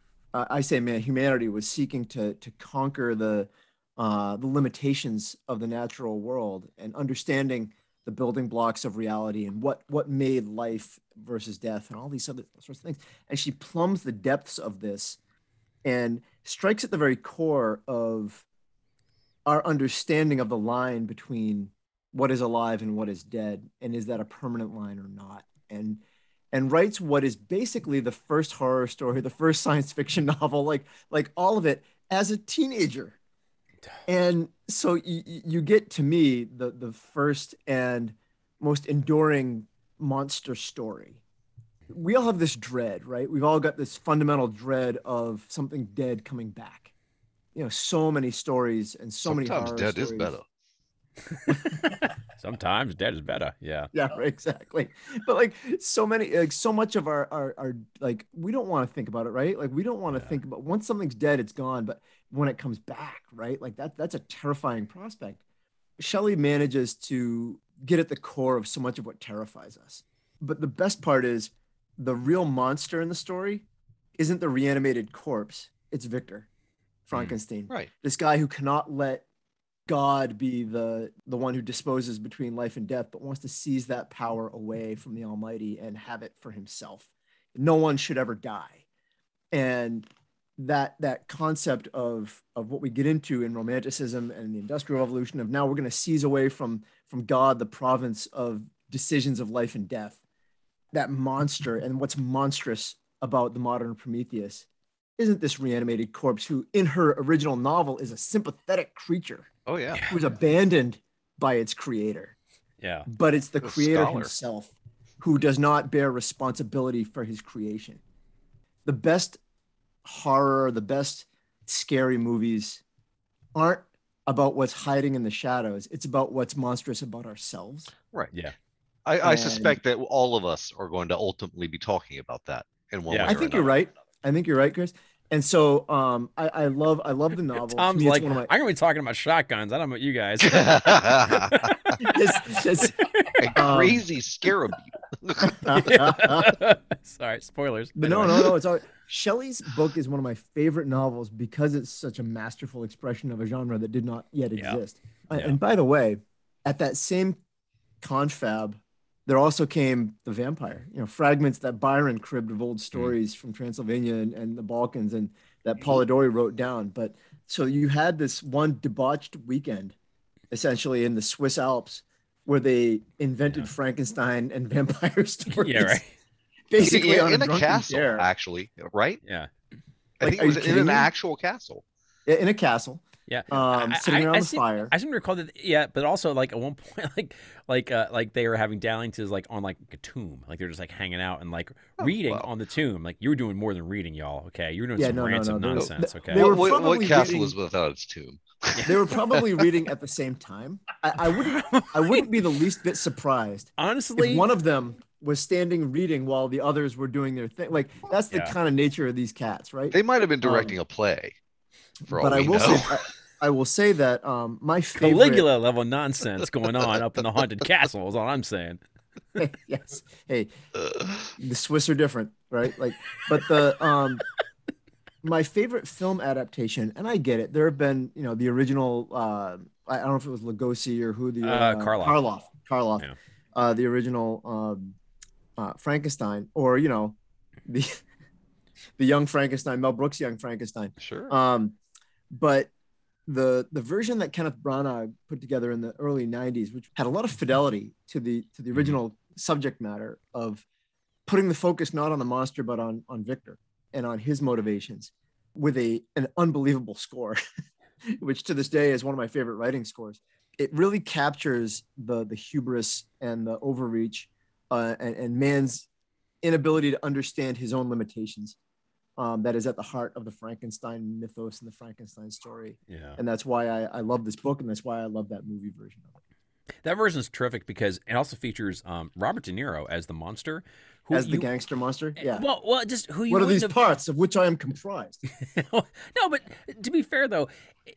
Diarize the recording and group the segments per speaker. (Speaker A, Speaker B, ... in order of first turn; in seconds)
Speaker A: 0.3-15.2, 15.8-18.4, 19.4-33.2, 34.1-41.2, 41.9-46.9, 47.5-50.3, 51.5-51.8, 53.9-65.4, 66.0-73.6, 74.2-76.5, 77.1-79.2, 79.9-88.8, 89.5-100.2, 100.9-104.7, 105.2-109.5, 110.1-112.3, 113.1-118.0, 118.8-119.4, 120.0-122.8, 123.5-127.9, 129.2-129.8, 133.2-138.5, 142.0-143.0, 143.5-144.0, 145.5-146.6, 147.9-157.4, 158.0-169.9, 170.5-176.0, 176.7-178.3, 180.2-181.1, 182.2-184.9, 195.0-197.5, 198.8-210.7, 212.1-215.4, 219.4-220.5, 221.4-224.2, 225.2-234.9, 235.6-238.0, 239.0-241.8, 242.3-242.7, 243.3-250.6, 251.2-257.4, 258.1-265.9, 266.4-268.6, 269.2-276.2, 281.1-282.4, 283.3-285.2
Speaker B: 49.2-50.4, 109.7-110.0, 113.6-114.3, 129.1-133.7, 140.5-141.7, 143.4-145.6, 176.8-179.2, 180.2-181.8, 192.0-192.4, 195.8-199.2, 209.9-211.3, 212.1-212.9, 241.0-241.3
Speaker C: 51.4-51.8, 52.4-53.9, 109.9-110.2, 112.8-113.1, 133.1-133.4, 137.6-142.1, 145.7-148.5, 155.3-155.6, 175.5-176.1, 179.2-179.5, 183.3-196.6, 198.8-199.0, 201.6-202.3, 203.8-204.5, 215.0-218.8, 231.4-232.2, 272.9-273.2, 276.8-281.5, 282.2-283.8, 285.4-287.5